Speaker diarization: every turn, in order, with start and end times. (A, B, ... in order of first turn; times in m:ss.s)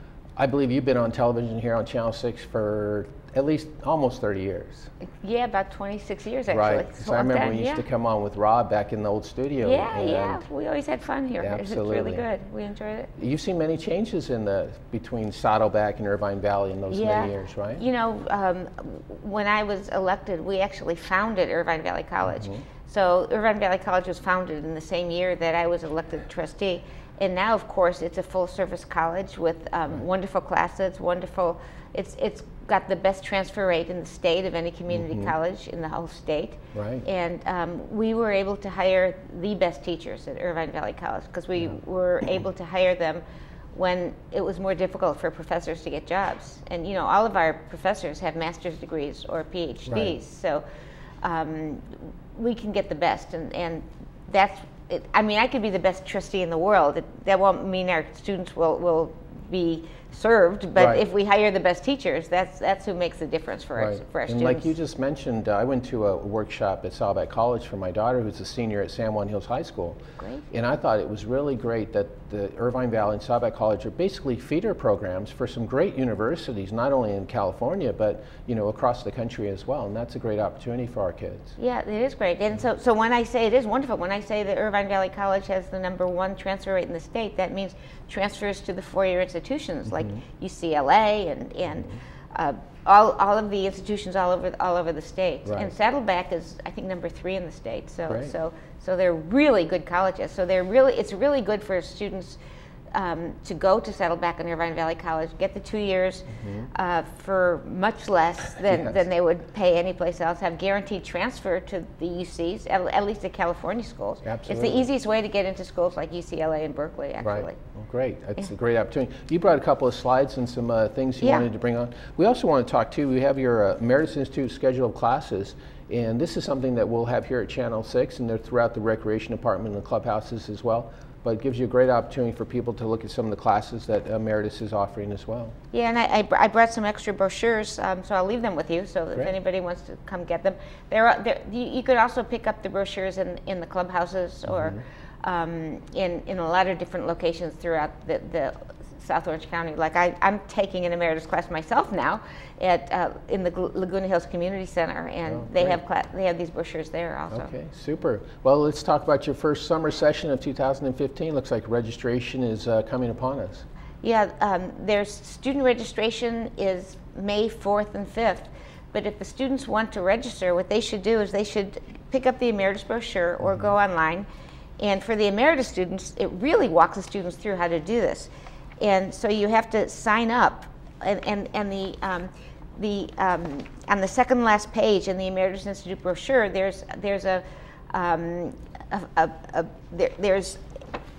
0:00.4-0:04.9 A
0:05.2-0:07.8 B
0:06.5-0:10.4 A
0:09.6-0:13.1 B
0:11.4-0:12.3 A
0:13.2-0:17.8 A
0:16.9-0:50.6 B
0:22.3-0:22.6 A
0:34.9-0:35.3 A
0:36.7-0:37.0 A
0:49.9-0:50.2 A
0:51.2-1:04.7 B
1:00.8-1:01.0 A
1:03.8-1:10.0 A
1:10.2-1:10.4 B
1:10.5-1:21.6 A
1:21.6-1:42.4 B
1:29.9-1:30.2 A
1:35.5-1:35.7 A
1:38.1-1:38.3 A
1:42.9-1:57.6 B
1:46.3-1:46.7 A
1:48.7-1:49.0 A
1:54.2-1:54.9 A
1:57.2-2:15.6 A
2:01.2-2:01.5 B
2:15.7-2:37.5 B
2:24.5-2:24.8 A
2:35.3-2:35.8 A
2:37.3-2:43.7 A
2:44.0-2:54.3 B
2:54.8-3:10.6 B